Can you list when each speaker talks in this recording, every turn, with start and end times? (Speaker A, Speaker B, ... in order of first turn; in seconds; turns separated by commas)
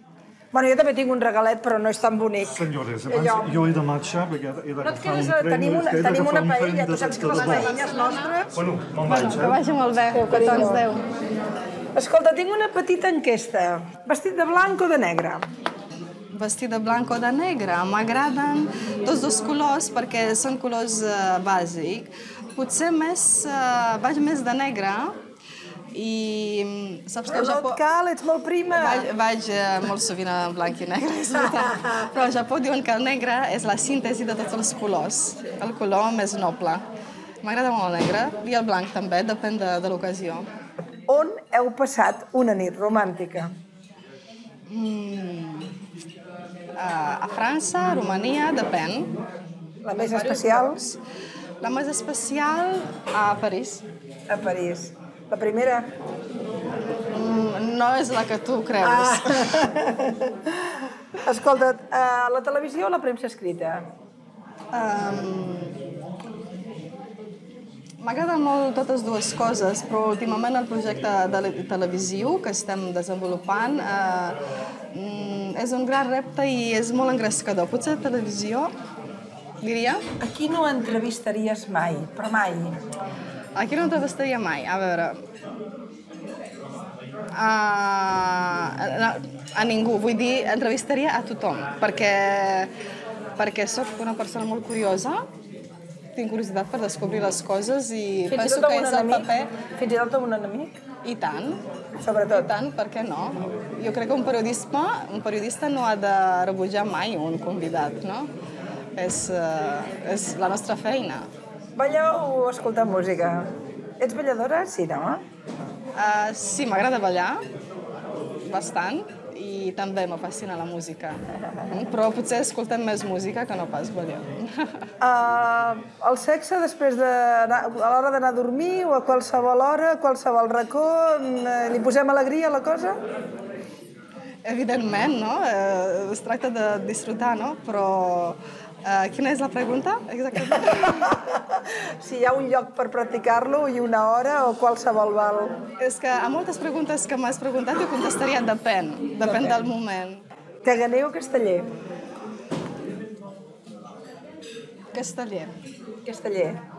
Speaker A: 0.5-3.6, Speaker B: 2.5-7.8, Speaker A: 4.8-8.4, Speaker C: 7.2-11.0, Speaker B: 8.5-9.6, Speaker A: 10.1-10.9, Speaker A: 12.0-15.4, Speaker C: 16.3-25.2, Speaker C: 25.9-27.8, Speaker A: 27.3-29.1, Speaker C: 28.7-36.8, Speaker C: 37.4-40.5, Speaker A: 41.1-43.5, Speaker C: 44.7-45.7, Speaker C: 46.8-49.1, Speaker A: 49.9-50.8, Speaker C: 50.0-51.0, Speaker C: 51.6-53.8, Speaker A: 54.3-55.9, Speaker C: 57.1-59.7, Speaker A: 58.8-60.5, Speaker A: 61.2-63.8, Speaker C: 64.7-65.8, Speaker C: 68.0-74.4, Speaker C: 74.9-78.7, Speaker C: 79.6-80.0, Speaker A: 80.2-82.7, Speaker C: 83.6-85.2, Speaker C: 87.3-92.7, Speaker C: 93.4-95.2, Speaker C: 96.2-99.5, Speaker A: 98.3-100.8, Speaker C: 101.0-101.6, Speaker A: 102.0-102.5, Speaker C: 102.3-108.3, Speaker C: 109.0-111.3, Speaker A: 111.8-113.5, Speaker A: 114.0-115.2, Speaker C: 116.0-117.4, Speaker C: 118.5-121.2, Speaker C: 121.7-124.9, Speaker A: 125.0-133.0, Speaker C: 134.4-141.2, Speaker A: 140.5-145.6, Speaker C: 145.8-150.2, Speaker A: 149.2-149.6, Speaker A: 150.7-151.7, Speaker C: 154.9-155.6, Speaker A: 156.1-156.6